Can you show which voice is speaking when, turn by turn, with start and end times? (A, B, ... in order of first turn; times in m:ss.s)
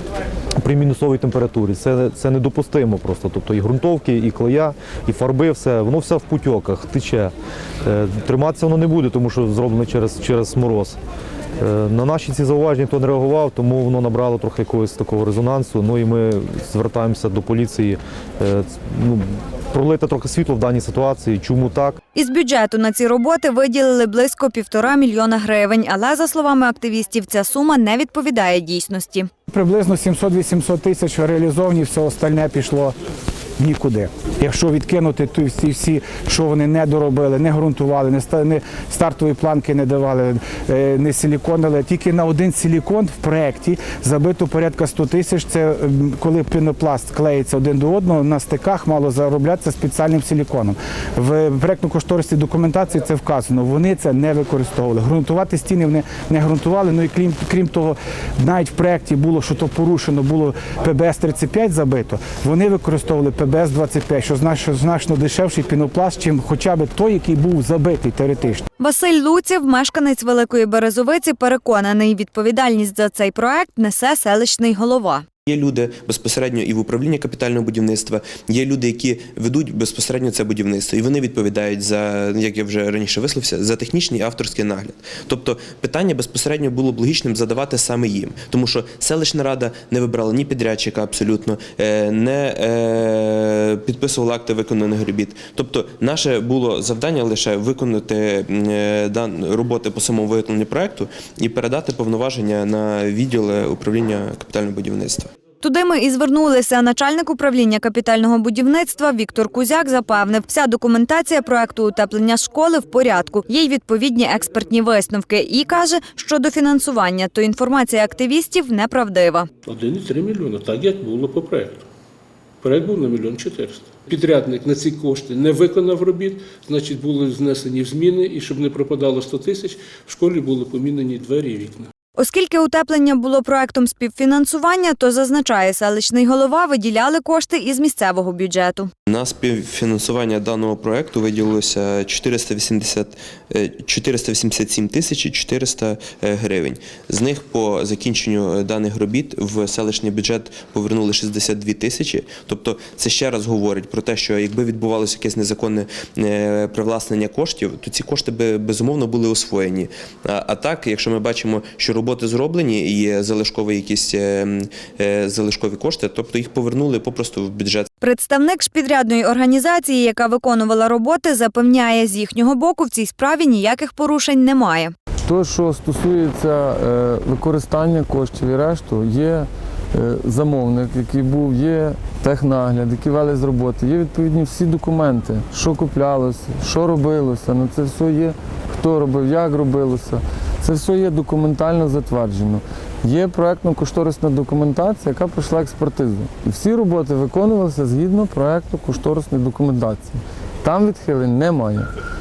0:00.6-0:07.3 A
0:07.8-0:11.0 A
0:11.6-0:22.0 A
0:22.1-0:29.3 B
0:29.5-0:32.9 C
0:33.6-1:08.6 C
1:08.8-1:15.2 B
1:15.4-1:45.3 D
1:45.6-1:59.5 B
1:59.7-2:01.8 E
2:02.6-2:11.9 E
2:12.2-2:18.9 B
2:19.1-2:47.9 D
2:48.0-2:54.9 B
2:55.2-3:21.9 F